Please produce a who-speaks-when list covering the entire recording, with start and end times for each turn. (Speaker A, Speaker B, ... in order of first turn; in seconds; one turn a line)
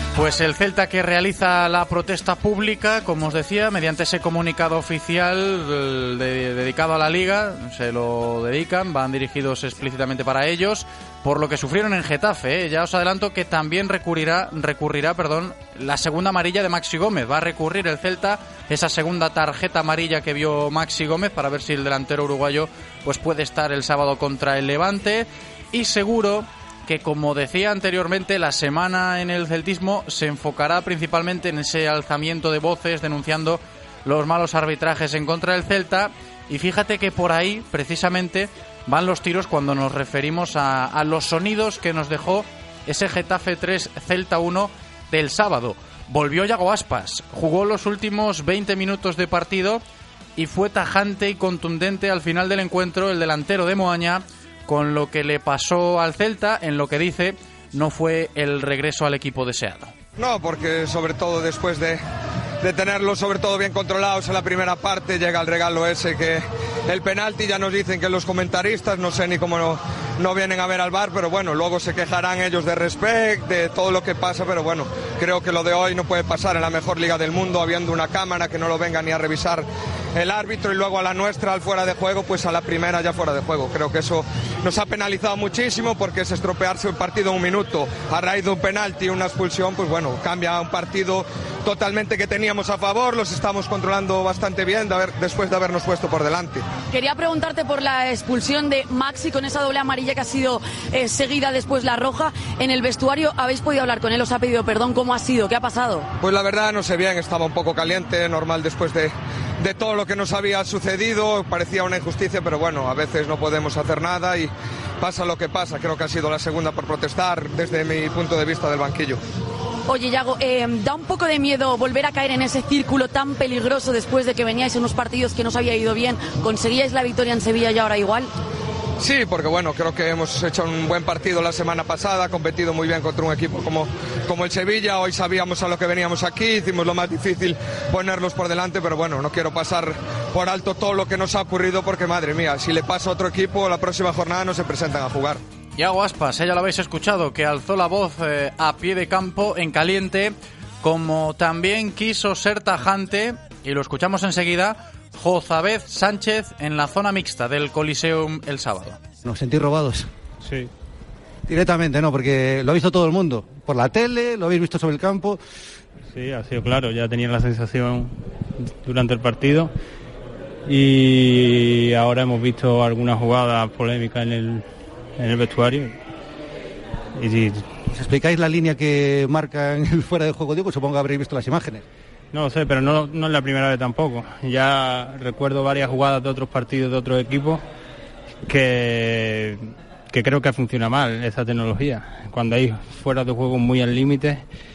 Speaker A: 0.1-49.8
Speaker A: 50.4-59.9
Speaker B: 60.2-62.0
Speaker B: 62.6-96.6
Speaker C: 96.9-106.1
Speaker B: 106.2-119.2
Speaker C: 119.9-128.3
Speaker B: 129.0-145.4
Speaker A: 145.8-159.0
Speaker D: 159.2-160.1
Speaker E: 160.4-160.7
Speaker D: 161.5-165.4
Speaker E: 166.1-169.7
Speaker E: 170.7-174.7
Speaker E: 175.2-176.0
Speaker E: 177.2-177.8
Speaker D: 177.9-181.8
Speaker E: 182.3-187.6
Speaker E: 188.4-194.5